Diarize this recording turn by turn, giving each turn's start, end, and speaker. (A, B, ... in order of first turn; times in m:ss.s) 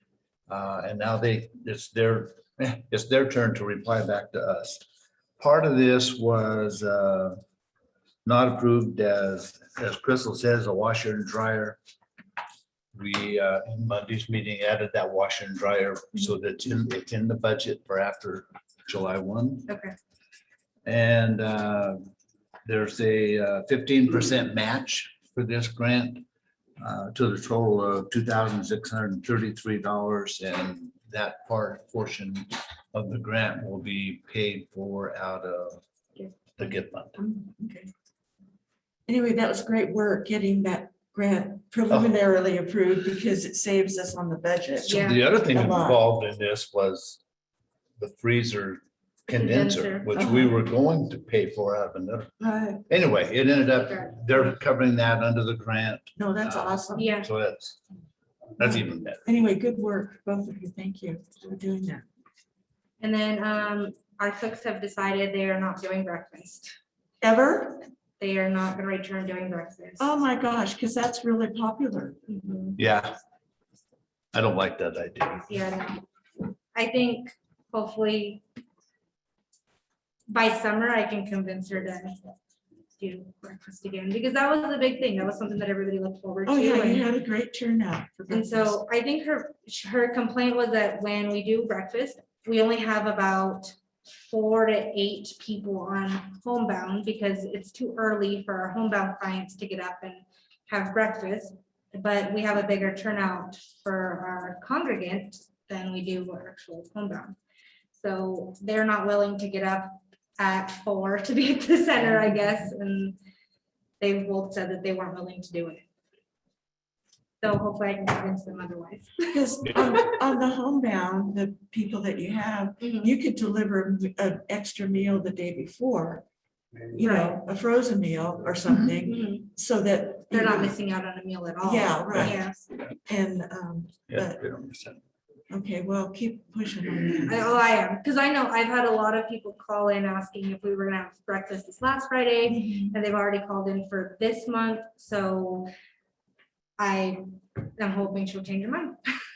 0:00.5-0:04.8 A
0:05.4-0:07.4 A
0:08.2-0:11.8 A
0:12.9-0:19.7 A
0:19.7-0:19.9 B
0:20.8-0:22.1 A
0:22.6-0:26.2 A
0:26.8-0:35.8 A
0:36.6-0:37.2 A
0:37.2-0:37.9 C
0:39.1-0:46.0 C
0:44.8-0:47.2 A
0:44.9-0:45.2 B
0:48.0-0:52.3 A
0:49.4-0:50.3 B
0:50.1-0:50.5 C
0:52.4-0:52.8 C
0:52.9-0:57.8 A
0:53.8-0:54.3 B
0:56.2-0:57.1 C
0:57.0-0:57.3 B
0:58.6-0:59.2 A
0:59.2-1:02.0 C
1:03.0-1:06.7 B
1:07.2-1:07.8 C
1:08.2-1:10.0 B
1:10.0-1:12.2 C
1:12.3-1:12.8 B
1:12.8-1:13.2 A
1:14.3-1:15.5 A
1:15.5-1:16.0 B
1:16.7-1:18.4 B
1:20.3-1:22.2 B
1:23.0-1:27.0 B
1:26.4-1:28.8 C
1:28.3-1:47.4 B
1:48.0-1:53.2 B
1:54.0-1:55.8 B
1:57.4-2:00.1 B
1:59.3-2:06.2 C
2:02.8-2:03.1 B
2:06.9-2:10.8 C
2:07.0-2:07.4 B
2:08.9-2:09.5 B
2:10.3-2:12.6 B
2:11.6-2:12.4 C
2:13.0-2:14.4 C
2:14.1-2:15.0 A
2:15.5-2:17.6 C
2:17.2-2:25.7 B
2:22.6-2:22.9 C
2:26.8-2:27.2 B
2:27.8-2:29.1 B